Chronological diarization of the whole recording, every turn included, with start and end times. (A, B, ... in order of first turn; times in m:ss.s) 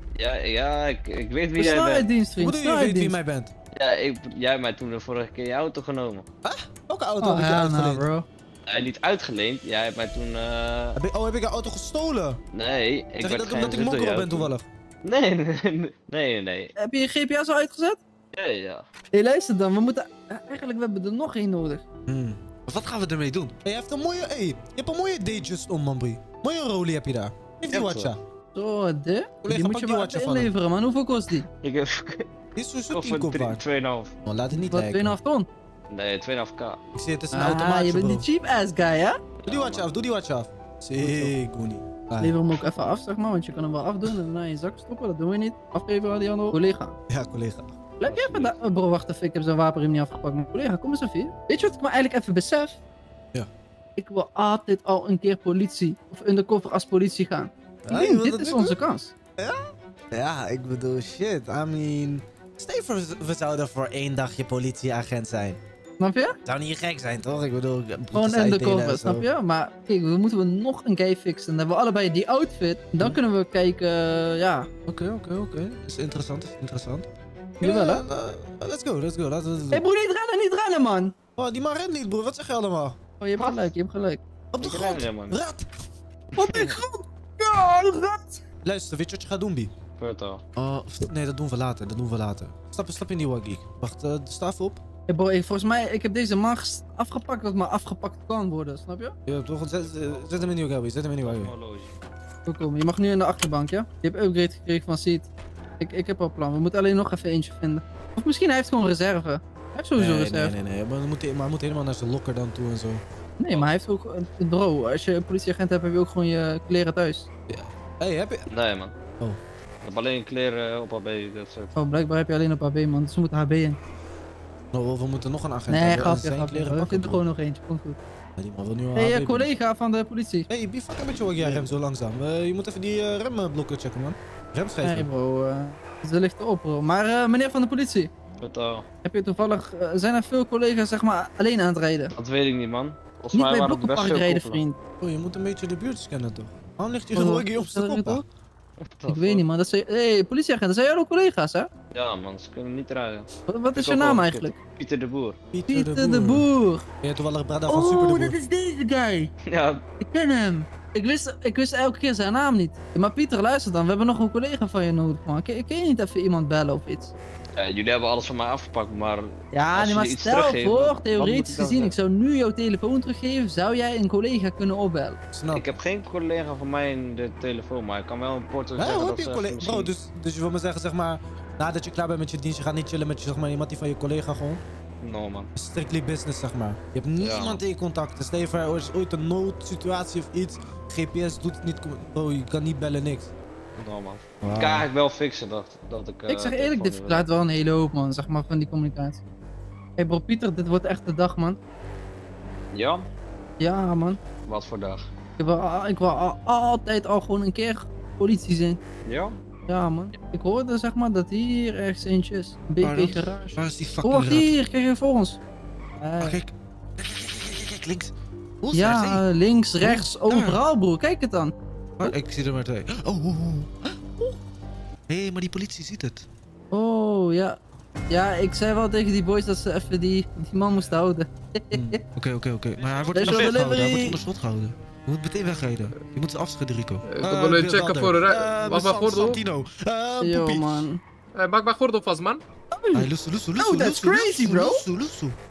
0:00.2-0:02.1 A
0:01.6-0:03.2 B
0:02.4-0:03.5 C
0:03.8-0:06.3 A
0:06.4-0:08.1 C
0:07.2-0:08.3 B
0:08.7-0:11.0 A
0:11.0-0:12.4 C
0:12.5-0:14.5 A
0:13.2-0:14.7 C
0:15.0-0:16.7 A
0:16.8-0:18.0 B
0:18.3-0:18.9 A
0:19.1-0:21.8 B
0:22.1-0:28.2 C
0:27.7-0:28.1 A
0:28.5-0:31.5 B
0:29.4-0:30.5 C
0:31.6-0:32.3 A
0:32.6-0:33.6 C
0:32.9-0:34.1 A
0:34.2-0:35.2 C
0:34.5-0:35.5 B
0:35.9-0:36.8 A
0:37.0-0:38.3 C
0:37.3-0:39.2 B
0:39.4-0:39.9 A
0:39.5-0:42.4 C
0:41.0-0:41.2 B
0:42.2-0:47.0 B
0:47.1-0:47.9 C
0:48.0-0:52.8 B
0:48.0-0:48.5 A
0:54.0-0:59.1 B
0:57.8-0:58.8 C
0:59.4-1:05.6 C
1:06.0-1:06.4 B
1:06.4-1:09.3 C
1:08.1-1:14.7 B
1:14.9-1:17.1 C
1:17.6-1:18.0 B
1:17.6-1:19.8 C
1:19.7-1:21.2 B
1:21.4-1:23.0 C
1:23.2-1:24.2 B
1:23.4-1:23.7 A
1:24.5-1:25.7 C
1:24.6-1:25.4 A
1:26.4-1:26.8 C
1:26.4-1:28.4 B
1:28.6-1:29.7 C
1:30.0-1:30.4 A
1:30.6-1:34.8 C
1:35.1-1:39.2 B
1:39.3-1:41.5 C
1:40.1-1:40.5 A
1:41.2-1:41.9 A
1:42.5-1:45.3 B
1:45.8-1:50.6 B
1:50.0-1:53.0 C
1:53.4-1:57.3 B
1:57.5-1:58.5 C
1:58.5-1:58.9 A
1:59.8-2:01.7 A
2:01.8-2:03.8 B
2:04.7-2:07.2 C
2:05.7-2:08.0 B
2:08.4-2:09.5 C
2:09.0-2:10.5 B
2:10.5-2:15.1 C
2:14.8-2:18.1 B
2:18.4-2:18.8 A
2:19.0-2:22.1 B
2:22.2-2:24.6 A
2:23.3-2:24.8 B
2:25.0-2:28.2 C
2:27.2-2:28.2 B
2:28.8-2:29.4 A
2:29.1-2:31.7 B
2:31.9-2:35.4 A
2:33.5-2:34.6 B
2:35.5-2:36.5 C
2:35.7-2:36.9 B
2:37.0-2:38.4 C
2:37.7-2:39.3 B
2:39.5-2:39.8 A
2:40.0-2:47.1 B
2:47.6-2:51.7 A
2:49.5-2:55.2 B
2:51.3-2:51.9 C
2:55.3-2:55.7 C
2:55.5-2:59.9 A
2:58.8-3:04.6 C
3:05.0-3:05.5 A
3:05.6-3:13.3 C
3:07.2-3:07.6 A
3:13.8-3:17.3 A
3:14.4-3:14.9 C
3:16.3-3:19.2 B
3:20.0-3:21.6 B
3:22.7-3:23.1 A
3:23.6-3:24.2 B
3:24.5-3:25.1 A
3:25.4-3:28.8 B
3:29.0-3:29.4 A
3:29.7-3:35.4 B
3:32.8-3:34.5 C
3:36.0-3:36.4 B
3:36.2-3:39.2 C
3:38.7-3:41.5 B
3:39.8-3:40.6 C
3:42.0-3:44.1 C
3:45.1-3:46.3 C
3:46.7-3:47.6 B
3:48.1-3:52.0 B
3:51.7-4:00.9 C
3:53.1-3:54.2 B
3:57.1-3:59.4 D
4:00.2-4:01.0 B
4:01.4-4:02.4 D
4:02.7-4:04.8 B
4:02.9-4:05.4 C